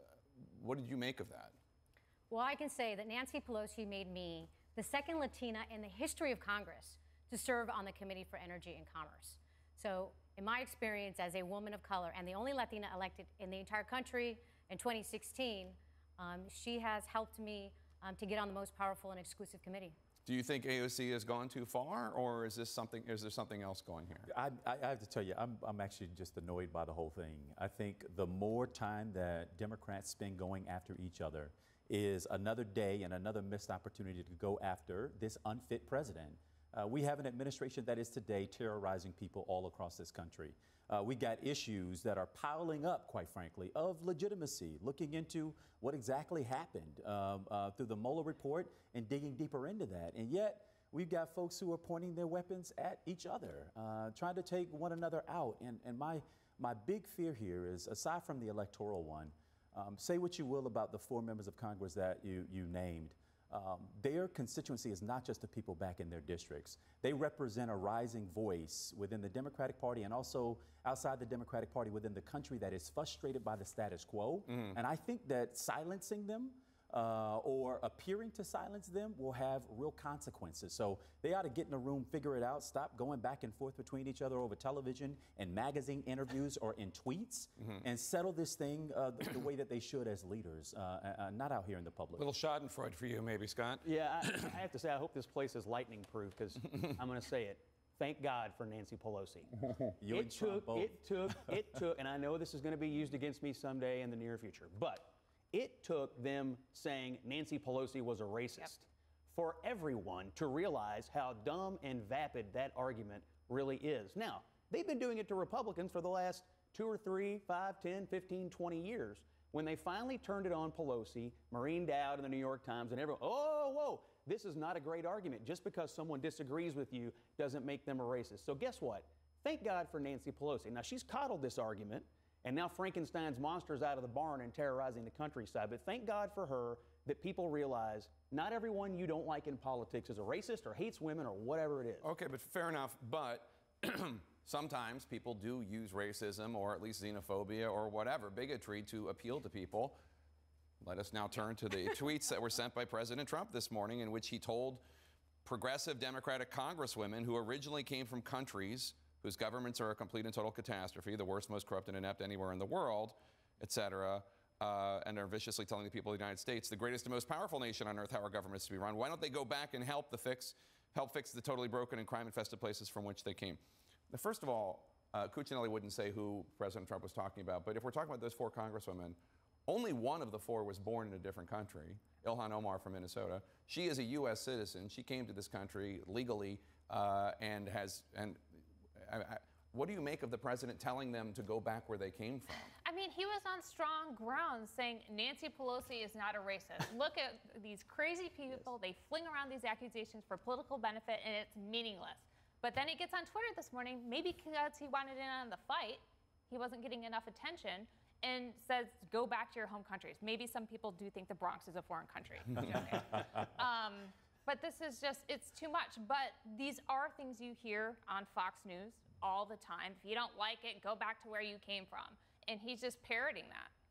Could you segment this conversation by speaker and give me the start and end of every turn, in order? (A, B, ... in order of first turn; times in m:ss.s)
0:00.4-0:01.6 A
0:02.3-0:20.0 B
0:20.3-0:24.3 A
0:24.3-1:32.3 C
1:32.2-1:33.9 A
1:33.8-1:39.5 D
1:40.0-1:41.5 C
1:40.0-2:22.1 D
2:22.0-2:30.0 A
2:30.8-2:34.8 A
2:35.4-3:08.4 A
3:09.0-3:12.7 A
3:12.8-3:43.7 E